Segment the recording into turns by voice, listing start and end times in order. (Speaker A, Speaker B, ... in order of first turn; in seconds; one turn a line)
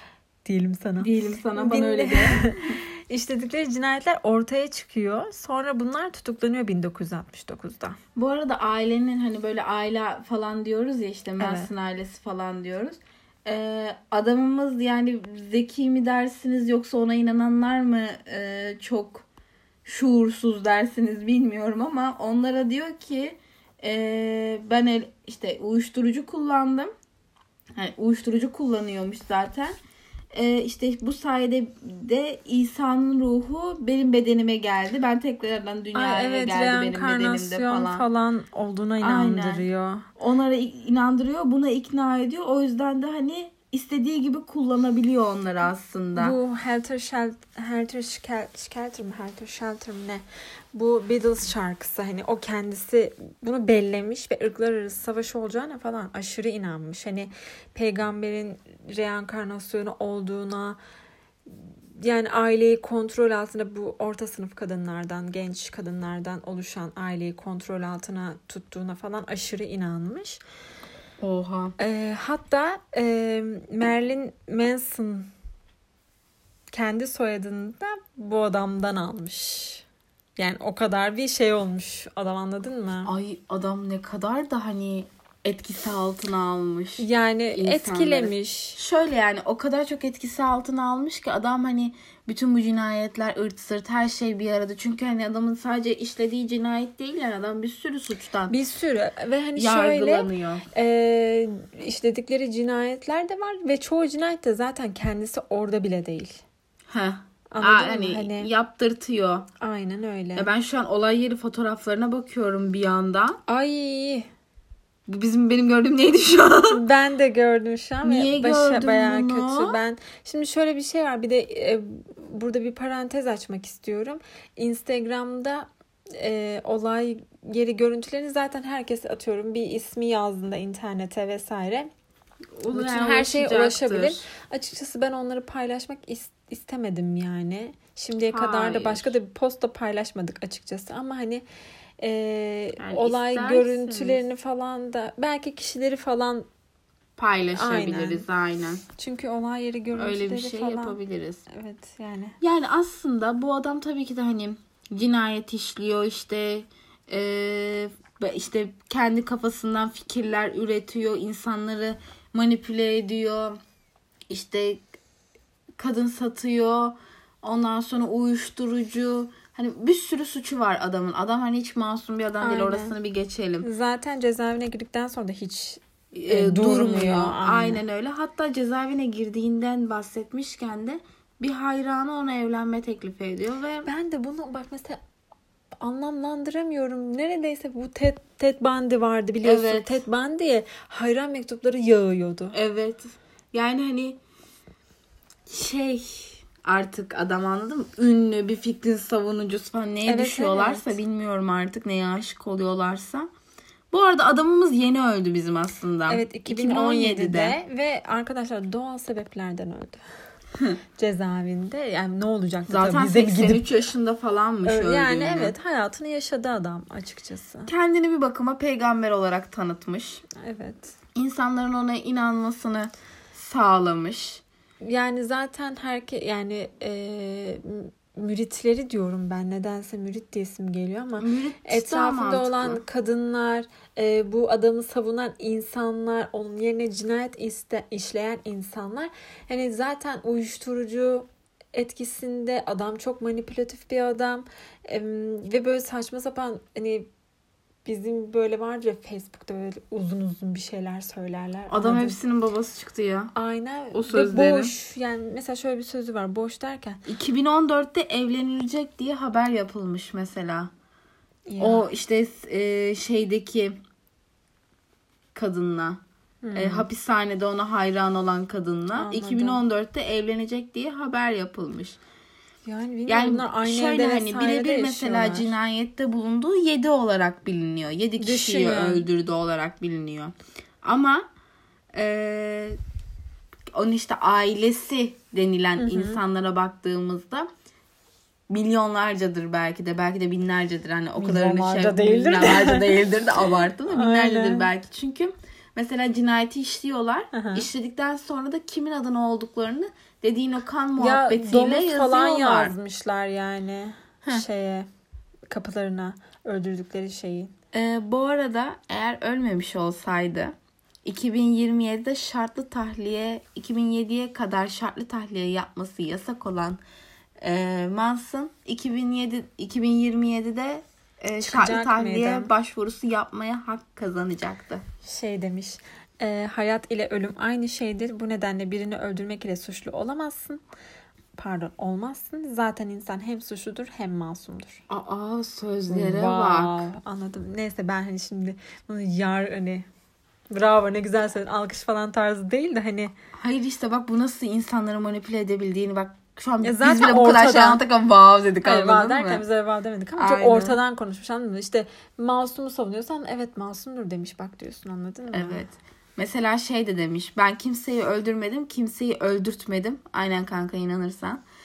Speaker A: 0.5-8.0
Speaker B: 1.0-2.7
Speaker B: 8.2-19.3
Speaker A: 11.4-11.7
Speaker B: 19.9-26.9
Speaker B: 27.8-29.8
Speaker B: 30.3-38.0
Speaker A: 36.0-40.0
Speaker B: 39.0-39.6
Speaker B: 40.2-46.4
Speaker A: 46.2-60.8
Speaker A: 61.5-70.4
Speaker B: 71.2-71.8
Speaker A: 71.8-75.3
Speaker A: 76.7-79.8
Speaker A: 80.4-83.1
Speaker B: 83.0-98.6
Speaker A: 87.0-88.8
Speaker A: 98.5-106.4
Speaker B: 99.6-100.7
Speaker B: 106.9-109.5
Speaker A: 107.5-108.5
Speaker A: 109.6-110.5
Speaker B: 110.3-113.4
Speaker A: 113.5-114.3
Speaker B: 115.1-116.8
Speaker A: 116.7-131.9
Speaker B: 118.0-119.8
Speaker B: 132.6-134.2
Speaker A: 132.7-141.4
Speaker B: 138.3-139.2
Speaker A: 142.0-146.5
Speaker B: 142.8-144.2
Speaker B: 147.2-148.8
Speaker A: 147.5-148.2
Speaker A: 149.0-151.0
Speaker B: 149.9-151.4
Speaker A: 151.5-152.4
Speaker B: 152.4-163.6
Speaker B: 164.3-164.8
Speaker B: 165.8-173.7
Speaker A: 172.4-172.9
Speaker A: 173.6-177.8
Speaker B: 176.1-183.9
Speaker A: 183.9-185.0
Speaker A: 185.8-192.6
Speaker B: 189.4-190.0
Speaker B: 192.5-194.2
Speaker B: 195.5-203.3
Speaker A: 200.1-201.0
Speaker B: 203.9-207.6
Speaker A: 206.1-210.0
Speaker A: 211.0-213.7
Speaker B: 212.7-215.6
Speaker A: 214.7-217.7
Speaker B: 217.7-220.2
Speaker A: 220.4-220.9
Speaker B: 221.2-224.4
Speaker A: 224.8-247.1
Speaker B: 231.2-232.8
Speaker A: 247.8-252.2
Speaker B: 251.7-253.3
Speaker A: 253.3-257.0
Speaker B: 253.9-254.7
Speaker B: 257.1-260.7
Speaker A: 261.5-261.9
Speaker B: 261.6-263.8
Speaker B: 265.3-266.0
Speaker A: 266.4-266.9
Speaker B: 266.5-272.0
Speaker A: 269.0-269.6
Speaker A: 272.7-275.5
Speaker B: 273.1-281.2
Speaker A: 278.2-279.1
Speaker B: 281.9-282.8
Speaker B: 283.7-287.5
Speaker A: 285.8-286.2
Speaker B: 288.5-302.8
Speaker A: 291.2-293.0
Speaker A: 293.9-294.7
Speaker A: 297.3-297.7
Speaker A: 301.0-304.9
Speaker A: 305.5-307.5
Speaker B: 307.7-310.5
Speaker B: 311.1-316.8
Speaker B: 317.4-324.8
Speaker A: 321.4-322.5
Speaker A: 325.0-330.6
Speaker A: 331.4-334.8
Speaker B: 334.9-336.9
Speaker A: 335.9-339.9
Speaker A: 340.5-343.1
Speaker B: 343.4-349.4
Speaker A: 346.6-347.8
Speaker A: 348.6-355.6
Speaker B: 350.2-350.8
Speaker B: 355.3-361.4